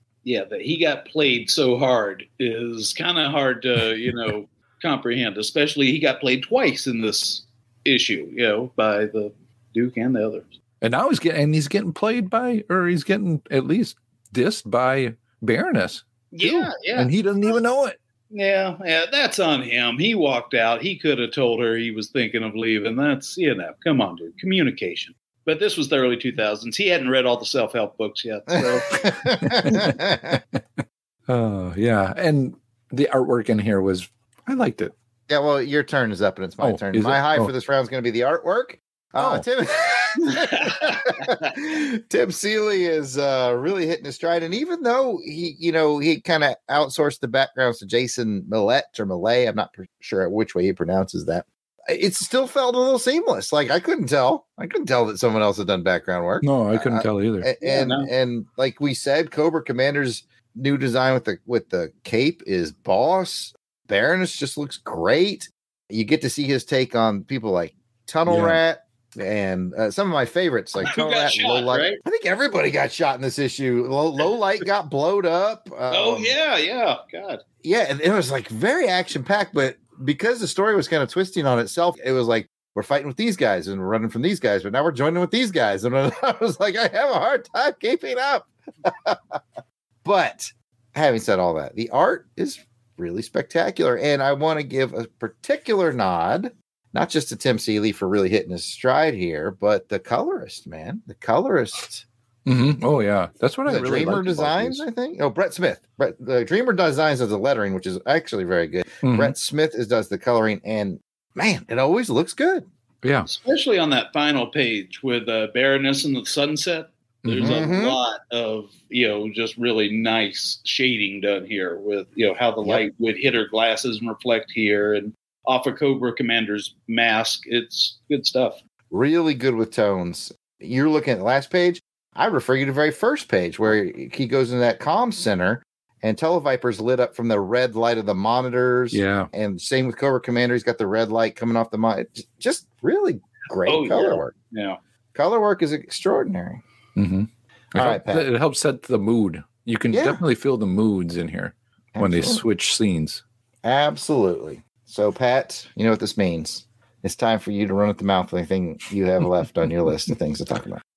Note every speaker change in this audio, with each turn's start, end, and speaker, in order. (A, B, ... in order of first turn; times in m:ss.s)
0:00.2-0:10.5 A
0:10.8-0:18.0 B
0:16.3-0:17.1 A
0:18.3-0:28.9 A
0:28.5-0:30.4 C
0:29.4-0:30.0 B
0:31.3-0:34.9 B
0:35.3-1:16.3 C
0:36.6-0:37.5 B
0:39.2-0:39.4 B
0:40.3-0:41.5 A
0:56.4-0:57.5 B
0:57.6-0:58.1 A
1:08.3-1:08.6 B
1:10.8-1:12.0 A
1:15.9-1:17.4 A
1:17.6-1:29.4 C
1:30.0-1:42.0 C
1:42.4-1:44.8 B
1:43.7-1:52.6 C
1:49.0-1:49.3 B
1:53.0-1:53.3 B
1:53.3-2:08.6 A
1:57.2-1:57.6 B
1:57.4-1:58.0 C
2:08.9-2:24.3 C
2:18.9-2:19.3 B
2:23.6-2:24.8 A
2:25.1-2:26.6 C
2:27.0-2:33.2 B
2:27.7-2:28.3 C
2:29.9-2:30.2 C
2:31.9-2:32.4 C
2:33.6-2:40.8 C